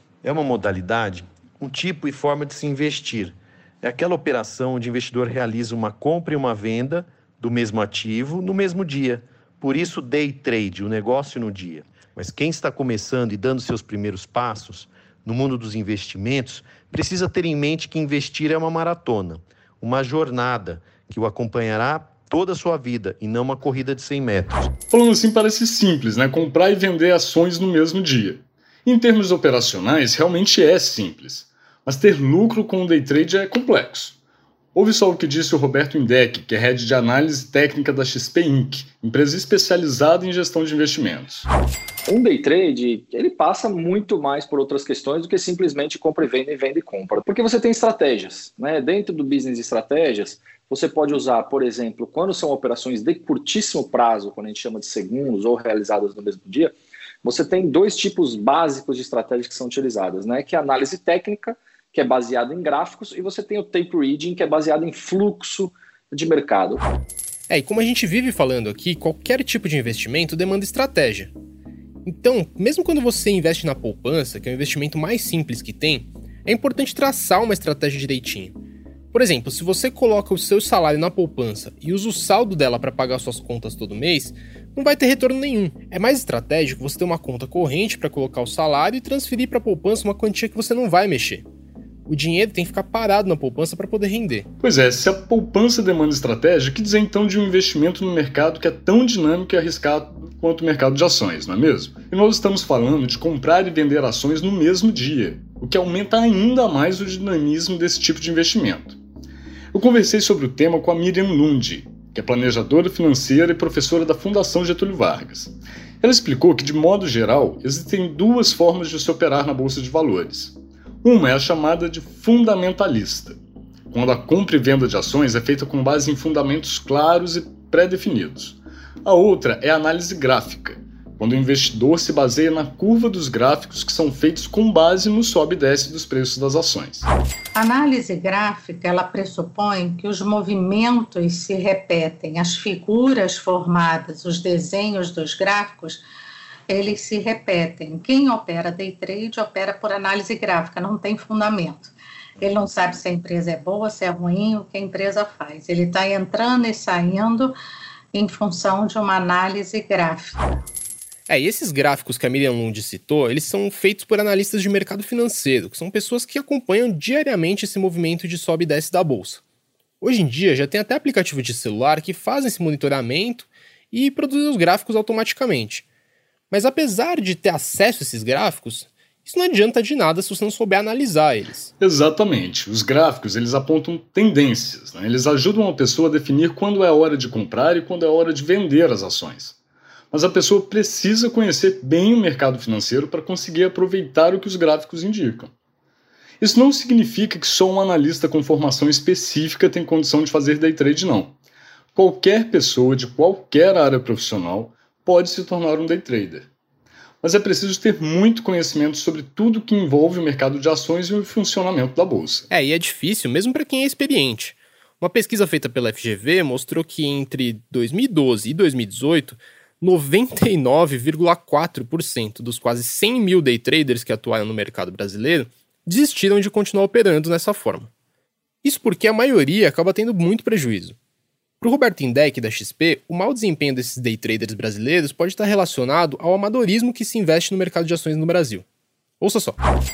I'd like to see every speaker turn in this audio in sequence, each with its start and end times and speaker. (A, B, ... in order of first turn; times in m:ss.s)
0:00.2-0:24.7 A
0:24.9-0:34.2 B
0:34.7-0:41.5 B
0:42.1-1:06.8 C
1:07.5-1:11.3 D
1:12.0-1:18.6 D
1:19.1-1:31.4 D
1:32.0-1:34.5 D
1:34.6-1:49.0 B
1:49.7-2:03.4 B
2:03.9-2:17.0 B
2:17.5-2:26.0 E
2:26.7-2:37.5 E
2:38.1-2:40.7 E
2:41.3-2:49.4 D
2:50.0-2:55.8 D
2:56.5-3:01.7 D
3:01.8-3:09.6 B
3:10.1-3:15.5 B
3:16.4-3:21.3 B
3:21.9-3:26.5 B
3:27.2-3:32.5 B
3:32.5-3:47.9 D
3:48.6-3:51.0 D
3:51.6-3:58.6 D
3:59.2-3:59.6 D